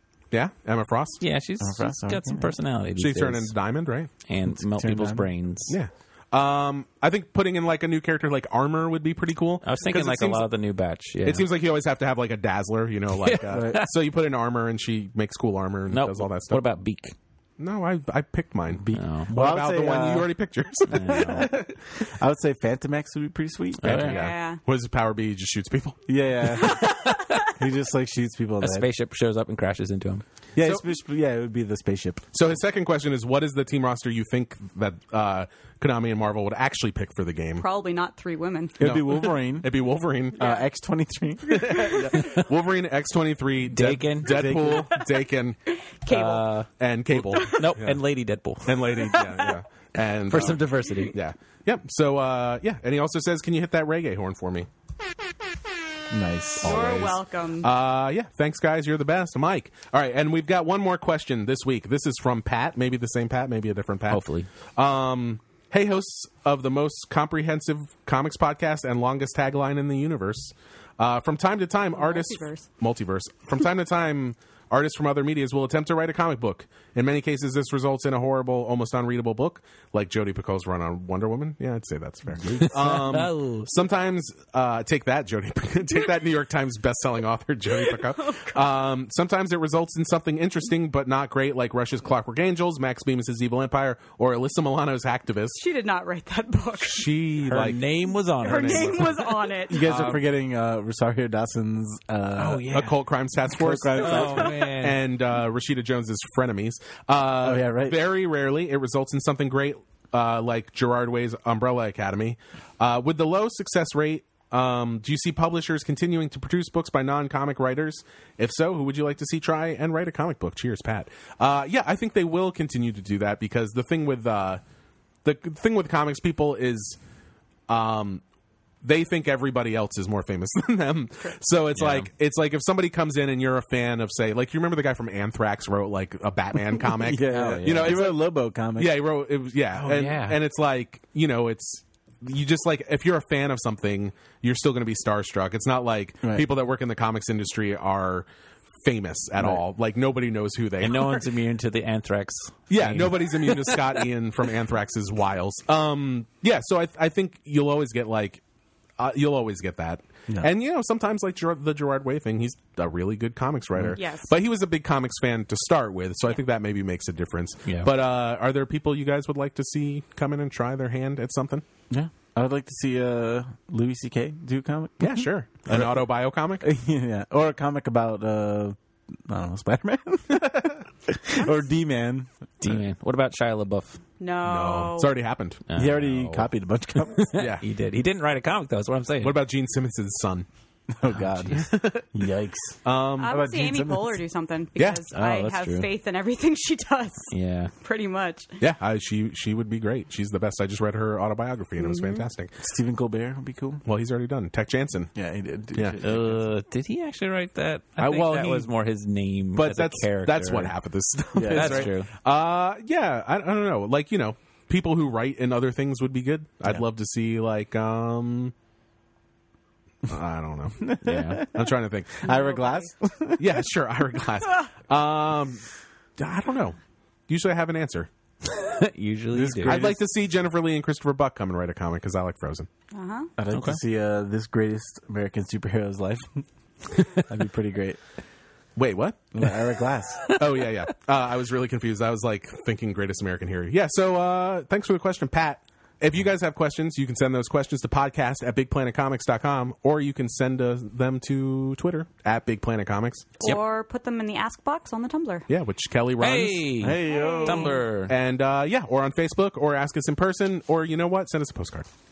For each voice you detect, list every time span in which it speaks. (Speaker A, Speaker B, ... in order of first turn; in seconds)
Speaker A: 0.3-1.2, 3.0-4.1, 5.7-10.5, 11.2-16.6, 17.6-21.8, 23.8-26.0, 32.3-37.7, 38.8-40.5, 41.5-45.6, 46.8-48.0, 48.6-54.7, 56.6-64.2, 64.8-95.6, 96.8-97.8, 98.4-99.0, 102.7-124.6, 125.2-127.0, 127.7-128.2, 128.8-138.2, 138.8-148.3, 148.8-151.3, 152.7-158.4, 159.0-171.7, 175.0-176.7, 180.5-180.8, 184.4-185.6, 187.4-187.7, 189.2-190.5, 191.6-192.1, 192.8-193.4, 194.8-195.0, 198.6-202.5, 203.8-205.1, 208.0-208.7, 209.6-218.5, 220.1-222.3, 223.4-225.7, 226.2-226.8, 227.3-228.1, 229.7-232.7, 238.8-239.3, 240.3-253.4, 255.5-256.9, 258.1-261.9
Speaker B: 1.2-3.5, 4.3-5.8, 9.6-11.5, 13.1-13.9, 15.9-17.1, 18.9-19.3, 20.9-21.5, 23.8-24.2, 27.1-27.3, 28.6-30.2, 43.7-44.5, 46.1-46.7, 47.3-49.1, 50.3-51.2, 64.1-64.5, 82.4-83.7, 97.5-100.2, 102.4-103.0, 103.8-105.0, 131.8-132.1, 137.3-138.1, 139.8-140.4, 150.8-154.1, 182.6-184.0, 185.7-186.5, 187.0-189.4, 191.2-191.7, 195.1-195.9, 197.3-197.7, 206.0-210.7, 211.5-212.1, 221.0-221.5, 228.4-229.9, 233.5-233.8, 256.2-258.1
Speaker C: 1.6-2.5, 4.5-5.3, 13.5-13.8, 18.8-20.3, 21.1-24.0, 26.1-28.9, 30.6-32.3, 38.8-39.7, 40.4-42.0, 44.2-45.0, 56.1-57.1, 99.7-102.8, 103.6-104.6, 107.4-108.0, 136.9-139.0, 171.9-175.9, 176.6-182.3, 185.8-187.3, 190.9-194.2, 202.6-203.8, 205.2-206.4, 211.3-211.9, 220.8-223.7, 229.3-230.0, 233.4-236.4, 237.2-238.0, 239.3-240.3, 256.8-257.8
Speaker D: 24.1-24.6, 37.6-38.8, 40.4-40.6, 45.9-46.5, 47.3-47.7, 49.0-49.6, 56.6-57.7, 71.9-72.7, 87.8-88.6, 95.5-97.1, 98.4-99.8, 163.9-164.3, 184.2-185.1, 193.2-198.6, 201.8-202.2, 222.2-222.9, 232.9-233.3, 253.4-255.5, 257.1-257.8